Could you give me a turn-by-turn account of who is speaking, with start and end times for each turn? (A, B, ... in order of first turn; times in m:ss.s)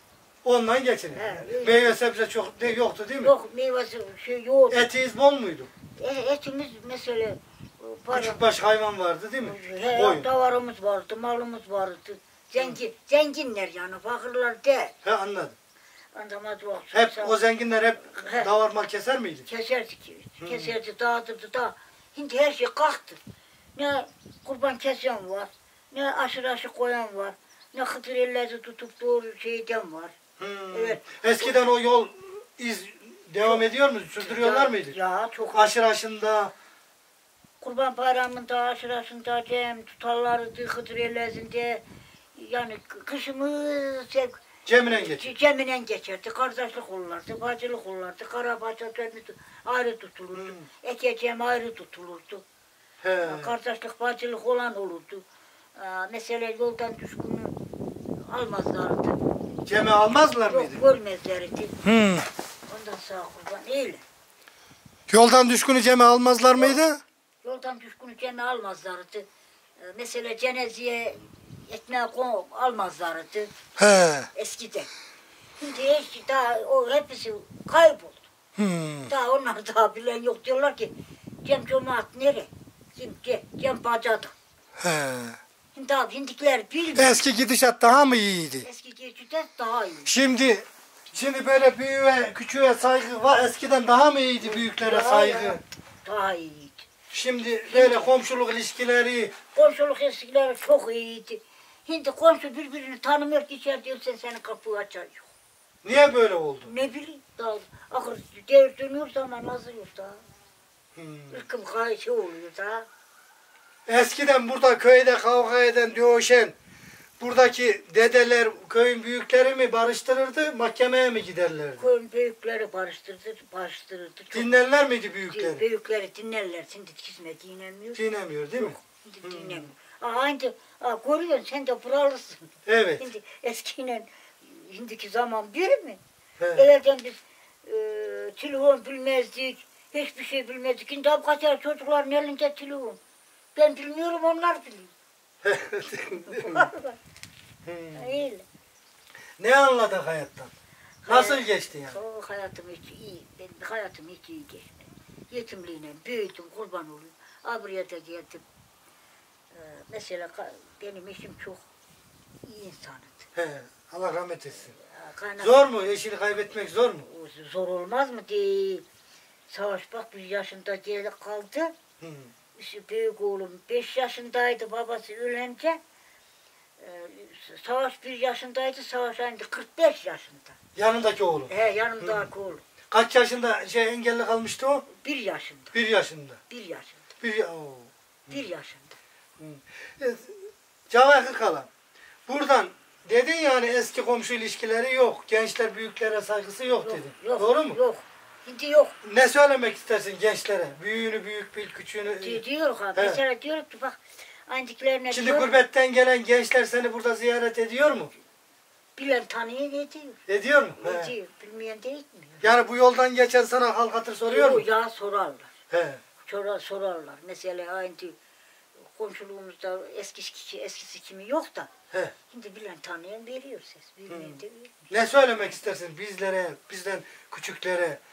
0:00.4-0:03.3 A
0:01.1-0:02.0 B
0:03.2-0:04.9 B
0:04.7-0:05.7 A
0:06.0-0:08.4 B
0:08.1-0:10.3 A
0:09.4-0:14.9 B
0:15.0-0:15.6 A
0:16.1-0:17.4 B
0:16.9-0:19.5 A
0:18.2-0:18.5 B
0:19.4-0:23.2 B
0:20.4-0:20.7 A
0:23.8-0:30.2 B
0:30.4-0:35.0 A
0:30.7-0:31.7 B
0:34.2-0:35.7 B
0:35.5-0:36.5 A
0:37.6-0:41.8 B
0:42.3-0:52.4 B
0:44.6-0:45.3 A
0:50.3-0:50.6 A
0:53.0-0:53.5 A
0:53.2-0:55.2 B
0:55.7-0:57.6 B
0:58.3-0:59.2 B
0:59.6-1:00.8 A
1:00.4-1:01.7 B
1:01.8-1:02.3 A
1:02.7-1:04.0 B
1:05.1-1:07.0 A
1:06.5-1:06.8 B
1:07.4-1:09.2 B
1:09.8-1:13.5 B
1:13.8-1:14.3 A
1:14.3-1:14.9 B
1:15.6-1:18.3 B
1:18.6-1:19.1 A
1:19.1-1:20.9 B
1:21.4-1:24.3 B
1:24.8-1:25.4 A
1:25.7-1:27.2 B
1:27.0-1:28.6 A
1:28.6-1:30.1 B
1:30.0-1:35.6 A
1:34.4-1:36.9 B
1:37.1-1:39.3 A
1:37.6-1:38.1 B
1:39.5-1:45.3 B
1:45.8-1:46.7 A
1:46.6-1:50.2 B
1:50.9-1:51.4 A
1:51.3-1:52.9 B
1:53.8-1:56.5 A
1:57.2-2:01.8 A
2:01.8-2:04.6 B
2:04.3-2:05.6 A
2:05.2-2:08.0 B
2:07.9-2:09.7 A
2:08.5-2:16.0 B
2:12.6-2:13.0 A
2:16.4-2:16.7 A
2:16.5-2:23.0 B
2:23.5-2:24.9 B
2:25.4-2:26.7 A
2:26.2-2:27.0 B
2:27.6-2:28.2 A
2:27.9-2:28.4 B
2:29.4-2:30.5 A
2:31.0-2:38.4 B
2:31.0-2:32.0 A
2:39.5-2:41.6 B
2:42.4-2:43.2 B
2:43.3-2:44.7 A
2:44.8-2:45.7 B
2:45.4-2:47.1 A
2:47.0-2:48.8 B
2:49.5-2:51.7 B
2:52.0-2:52.3 A
2:52.6-2:55.8 B
2:56.8-3:00.6 B
3:00.8-3:02.2 A
3:01.5-3:02.6 B
3:02.9-3:04.8 A
3:04.9-3:05.7 B
3:05.7-3:06.4 A
3:06.5-3:07.0 B
3:07.2-3:08.4 A
3:08.3-3:09.0 B
3:09.4-3:11.7 A
3:12.3-3:17.8 A
3:16.8-3:19.0 B
3:19.0-3:22.4 A
3:22.0-3:25.6 B
3:22.9-3:23.2 A
3:25.1-3:28.1 A
3:29.0-3:30.2 B
3:30.3-3:31.1 A
3:30.8-3:32.6 B
3:32.4-3:34.6 A
3:34.3-3:35.5 B
3:35.7-3:36.0 A
3:36.2-3:38.2 B
3:38.9-3:41.7 B
3:42.3-3:45.2 B
3:44.1-3:44.4 A
3:44.9-3:48.0 A